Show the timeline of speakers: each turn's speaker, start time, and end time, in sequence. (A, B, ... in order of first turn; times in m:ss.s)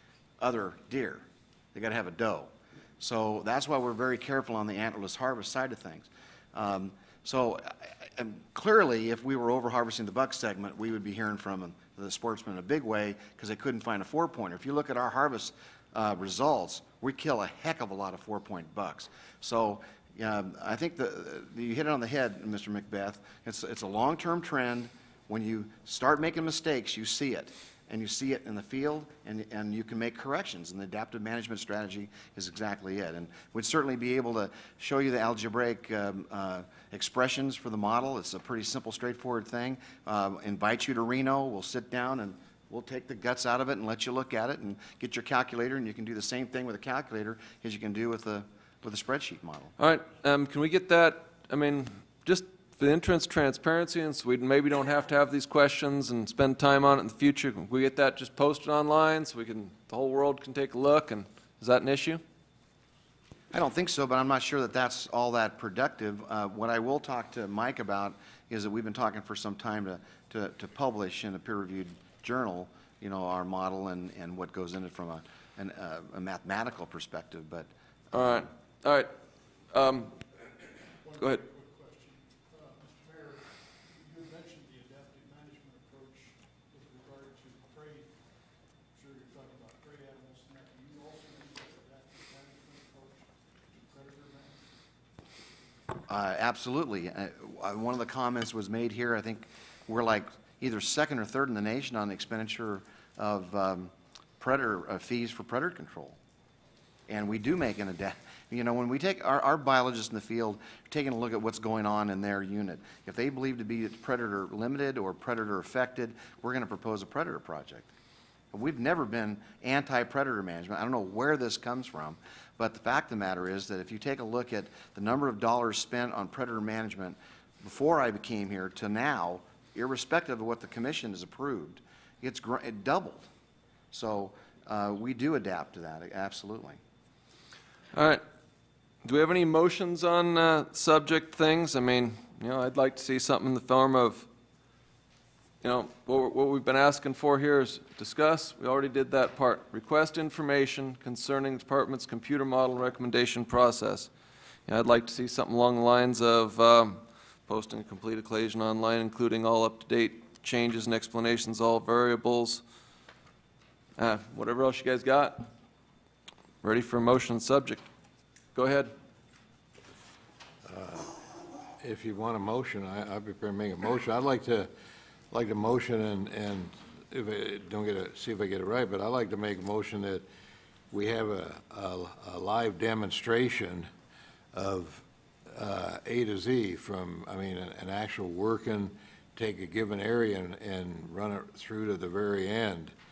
0:00.4-0:49.7 A
0:49.8-1:02.2 B
1:03.5-1:18.4 A
1:18.1-1:19.1 B
1:19.7-1:20.2 B
1:21.0-1:28.2 C
1:28.9-1:34.6 C
1:36.1-1:46.2 A
1:47.1-1:57.9 A
1:58.5-2:13.3 A
2:13.9-2:16.8 A
2:17.9-2:18.2 B
2:19.0-2:24.3 B
2:25.6-2:34.1 B
2:34.7-2:42.6 B
2:44.0-2:45.5 B
2:46.6-2:47.8 B
2:48.5-2:48.9 B
2:50.6-2:51.1 D
2:51.8-2:54.7 D
2:55.3-3:00.2 D
3:00.9-3:03.9 D
3:04.5-3:12.9 D